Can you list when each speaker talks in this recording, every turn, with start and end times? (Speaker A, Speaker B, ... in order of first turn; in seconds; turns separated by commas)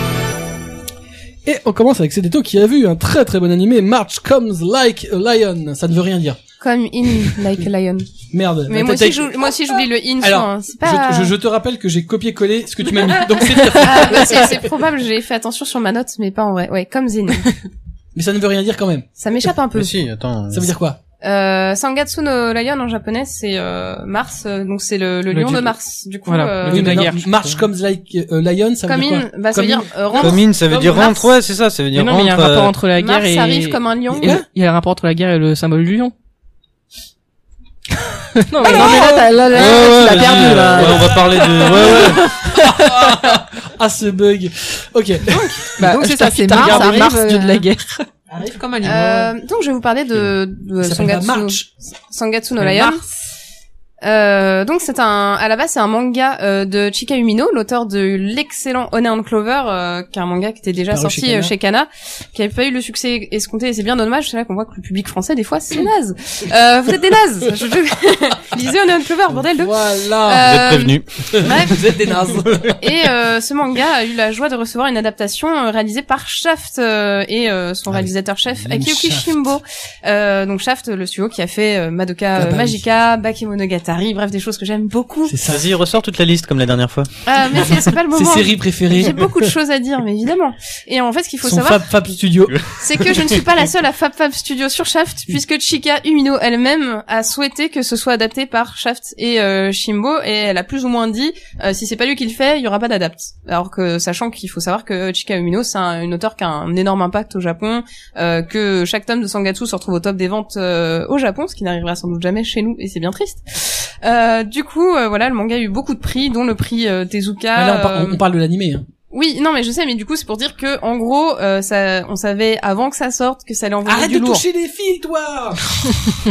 Speaker A: 1.4-6.4, Speaker B: 6.6-8.1, Speaker A: 8.3-9.5, Speaker B: 8.7-11.3, Speaker A: 10.2-14.7, Speaker B: 13.7-17.6, Speaker A: 18.1-19.1, Speaker B: 19.2-19.9, Speaker C: 19.7-20.7, Speaker A: 20.5-21.0, Speaker B: 21.2-27.2, Speaker D: 25.3-25.7, Speaker D: 26.2-27.6, Speaker A: 26.7-31.1, Speaker B: 28.9-31.3, Speaker C: 30.1-32.7, Speaker D: 31.9-36.1, Speaker B: 33.0-34.4, Speaker D: 38.4-39.4, Speaker E: 38.6-42.9, Speaker A: 38.6-39.4, Speaker C: 39.4-42.4, Speaker A: 40.8-45.8, Speaker D: 45.6-48.0, Speaker E: 45.8-47.7, Speaker A: 46.6-47.0, Speaker E: 48.3-49.3, Speaker B: 48.8-53.0, Speaker A: 50.8-51.7, Speaker E: 52.7-53.0, Speaker B: 54.0-71.9, Speaker A: 60.9-61.5, Speaker A: 69.3-70.5, Speaker C: 70.4-71.1, Speaker A: 71.3-72.8, Speaker B: 72.6-85.3, Speaker A: 77.9-79.3, Speaker A: 82.3-82.8, Speaker A: 85.3-85.7, Speaker C: 85.4-87.1, Speaker B: 87.2-91.9, Speaker A: 88.1-89.3, Speaker A: 91.4-93.2, Speaker B: 92.8-118.2, Speaker A: 117.5-118.8, Speaker B: 119.1-124.5, Speaker A: 123.8-125.6